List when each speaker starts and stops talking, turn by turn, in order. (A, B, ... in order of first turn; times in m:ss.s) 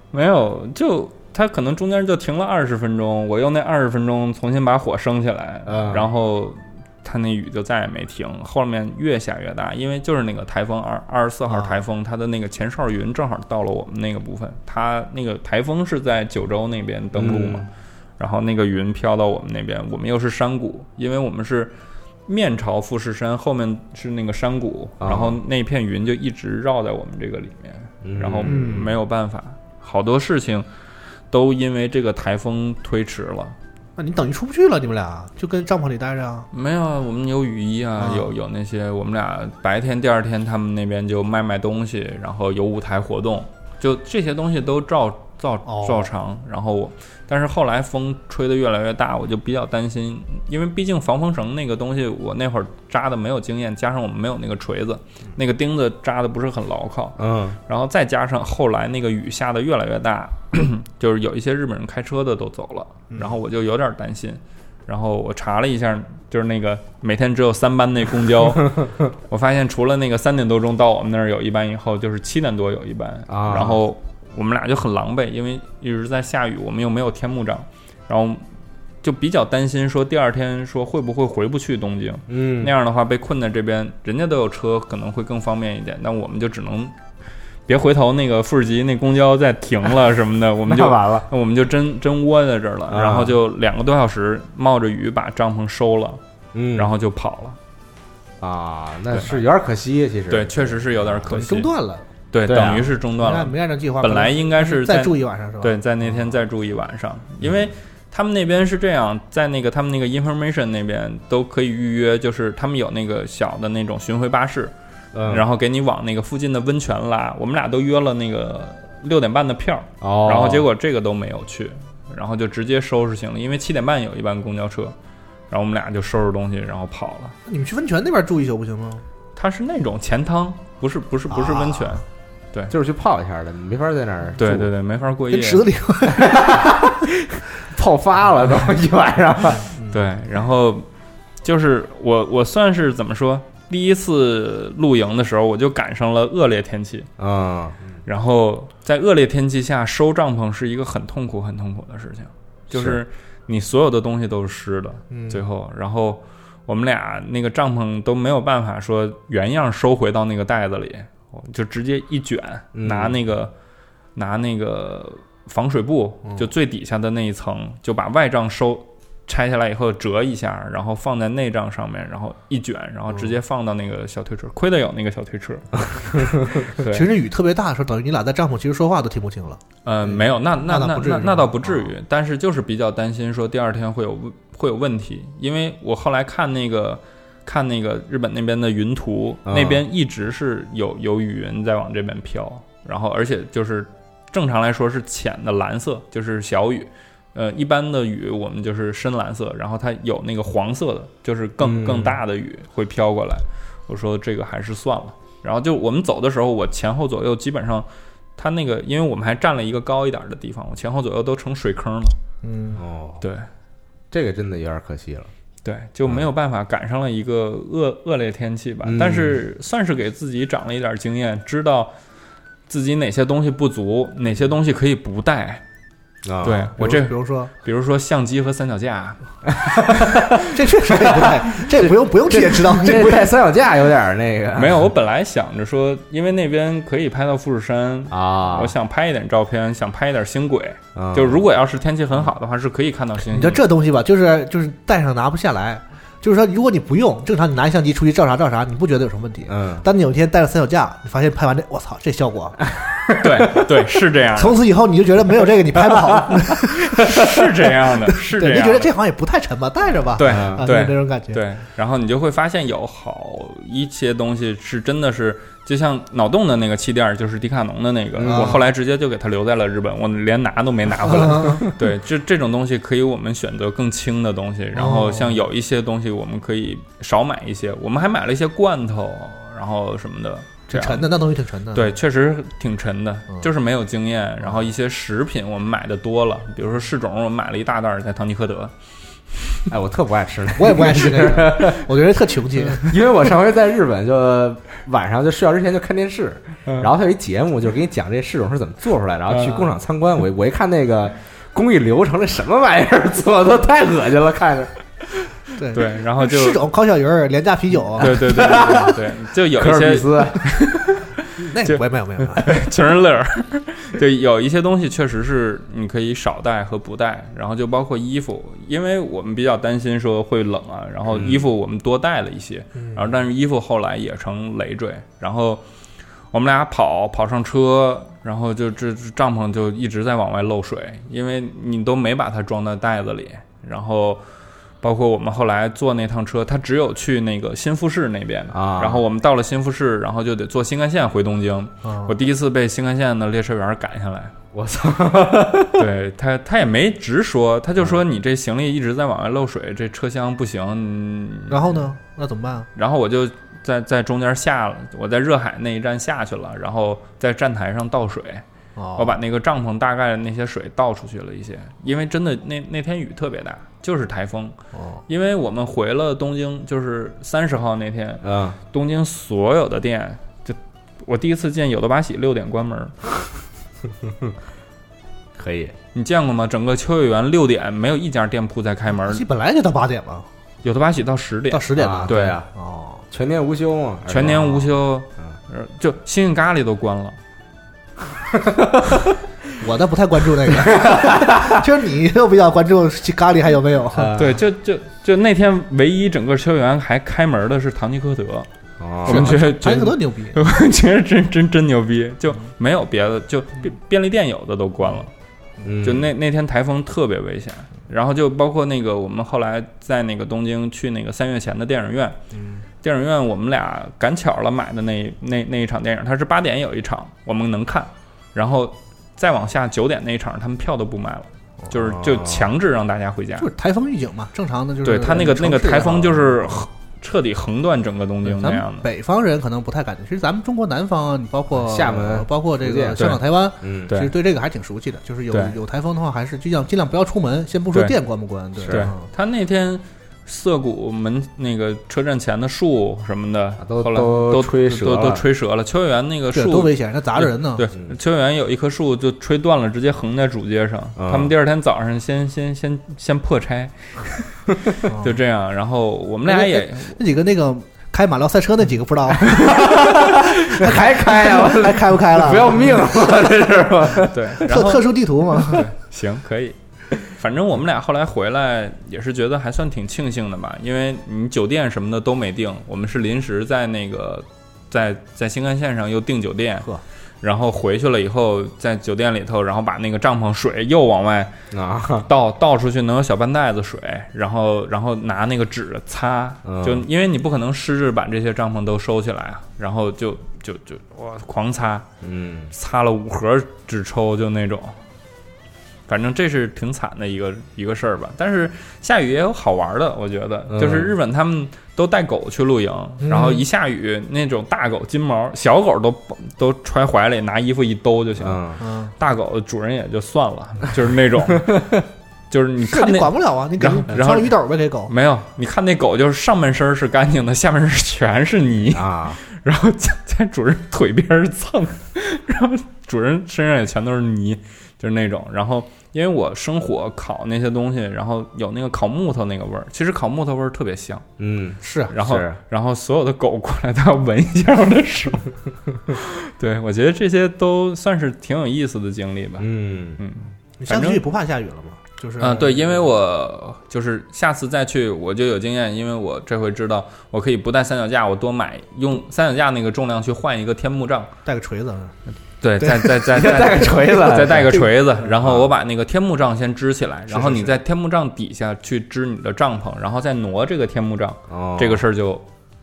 0:00.1-0:21.7 A
0:05.7-0:06.1 B
0:11.5-0:11.8 C
0:17.2-0:17.7 B
0:22.3-0:30.7 A
0:25.0-0:25.4 B
0:28.0-0:28.9 B
0:28.4-0:28.9 C
0:31.3-0:33.6 A
0:34.0-0:36.5 C
0:36.5-1:18.4 A
0:38.0-0:38.3 C
0:45.7-0:46.1 C
0:57.2-0:57.6 B
1:03.1-1:03.4 C
1:13.3-1:13.8 B
1:19.0-1:26.9 A
1:22.3-1:22.7 B
1:27.7-1:36.2 A
1:30.7-1:31.3 B
1:32.9-1:33.4 B
1:36.5-1:36.9 B
1:36.8-1:37.6 A
1:38.4-1:41.4 B
1:39.1-1:39.4 A
1:40.3-1:41.7 A
1:41.3-1:42.1 C
1:42.3-1:54.7 A
1:42.5-1:42.8 B
1:42.6-1:45.8 C
1:55.1-1:55.4 B
1:55.3-2:05.0 A
2:00.0-2:00.7 B
2:05.5-2:07.4 A
2:07.5-2:09.0 C
2:09.4-2:12.7 A
2:11.3-2:12.0 C
2:12.7-2:14.7 B
2:14.4-2:15.6 A
2:15.3-2:16.4 C
2:16.1-2:19.6 B
2:19.7-2:20.0 C
2:19.9-2:20.9 A
2:21.4-2:27.1 A
2:27.2-2:28.0 B
2:28.1-2:43.5 A
2:32.7-2:33.0 B
2:35.1-2:35.4 C
2:42.7-2:43.2 B
2:44.2-2:57.1 A
2:56.8-2:59.6 C
2:59.8-3:32.2 A
3:00.7-3:01.9 C
3:09.5-3:09.8 B
3:21.6-3:22.2 B
3:32.4-3:32.8 C
3:32.8-3:33.2 B
3:33.2-3:33.5 A
3:34.1-3:35.3 B
3:35.6-3:41.9 A
3:38.8-3:39.4 B
3:42.7-3:45.6 A
3:46.2-3:46.6 B
3:46.4-3:49.2 A
3:46.8-3:47.5 C
3:49.7-3:50.3 B
3:50.5-3:53.3 C
3:50.9-3:54.9 B
3:54.6-4:03.6 A
3:58.1-3:58.7 B
4:01.0-4:01.4 B
4:03.3-4:12.6 C
4:09.5-4:09.9 B
4:13.2-4:14.6 A
4:14.4-4:21.4 C
4:17.0-4:18.9 A
4:20.2-4:41.1 A
4:20.2-4:20.7 B
4:28.2-4:28.6 B
4:28.2-4:28.6 C
4:31.0-4:31.7 C
4:34.7-4:35.4 C
4:40.7-4:42.0 C
4:41.7-4:48.7 A
4:49.7-4:51.9 B
4:50.6-4:53.0 C
4:52.6-5:04.7 B
4:59.3-4:59.7 A
5:05.6-5:08.7 C
5:05.7-5:06.6 A
5:08.0-5:09.0 B
5:08.0-5:25.6 A
5:09.6-5:10.6 B
5:11.4-5:12.6 C
5:21.1-5:21.4 B
5:22.8-5:23.1 C
5:26.3-5:34.2 A
5:34.8-5:44.3 A
5:38.5-5:39.0 B
5:41.8-5:42.1 C
5:44.5-5:45.8 B
5:45.8-5:51.8 A
5:51.5-5:52.7 C
5:52.8-5:58.4 A
5:58.8-5:59.2 C
5:59.0-6:04.6 A
6:04.7-6:05.0 C
6:05.1-6:13.0 A
6:08.2-6:08.6 B
6:15.4-6:15.7 B
6:15.9-6:19.2 A
6:18.9-6:20.3 C
6:20.6-6:22.4 A
6:21.5-6:23.0 C
6:21.8-6:22.5 B
6:23.1-6:25.4 B
6:24.1-6:27.2 A
6:28.3-6:29.0 B
6:29.6-6:34.1 C
6:30.5-6:31.6 B
6:33.9-6:34.4 B
6:34.1-6:38.5 A
6:38.8-6:39.4 B
6:39.0-6:45.1 A
6:39.1-6:40.4 C
6:45.6-6:46.1 B
6:45.8-6:52.2 A
6:52.3-6:52.6 C
6:52.8-7:03.5 A
7:01.8-7:02.5 B
7:03.4-7:06.6 C
7:04.8-7:08.9 A
7:08.2-7:19.1 C
7:11.5-7:13.9 B
7:13.0-7:13.2 A
7:15.3-7:15.6 A
7:18.6-7:18.9 B
7:18.7-7:37.0 A
7:23.6-7:25.2 B
7:26.3-7:27.7 C
7:31.0-7:31.3 B
7:34.9-7:35.2 C
7:36.3-7:42.8 C
7:39.3-7:44.5 B
7:43.9-7:56.7 A
7:44.4-7:45.7 C
7:57.2-8:01.3 A
8:01.5-8:02.1 B
8:02.1-8:11.9 A
8:06.4-8:06.8 B
8:12.0-8:12.5 B
8:12.5-8:14.8 A
8:15.9-8:34.4 A
8:20.5-8:20.9 B
8:23.0-8:23.4 C
8:28.2-8:28.6 B
8:28.6-8:28.9 C
8:32.7-8:34.9 C
8:34.9-8:51.1 A
8:38.7-8:39.2 B
8:51.2-8:52.4 B
8:51.6-8:51.9 C
8:51.9-8:55.3 A
8:55.9-8:59.5 A
8:59.4-9:00.0 B
9:00.0-9:01.0 A
9:00.6-9:02.8 C
9:02.2-9:11.1 A
9:11.3-9:12.0 C
9:12.4-9:22.2 A
9:12.6-9:14.7 B
9:15.2-9:15.5 B
9:17.1-9:17.6 C
9:21.3-9:21.8 B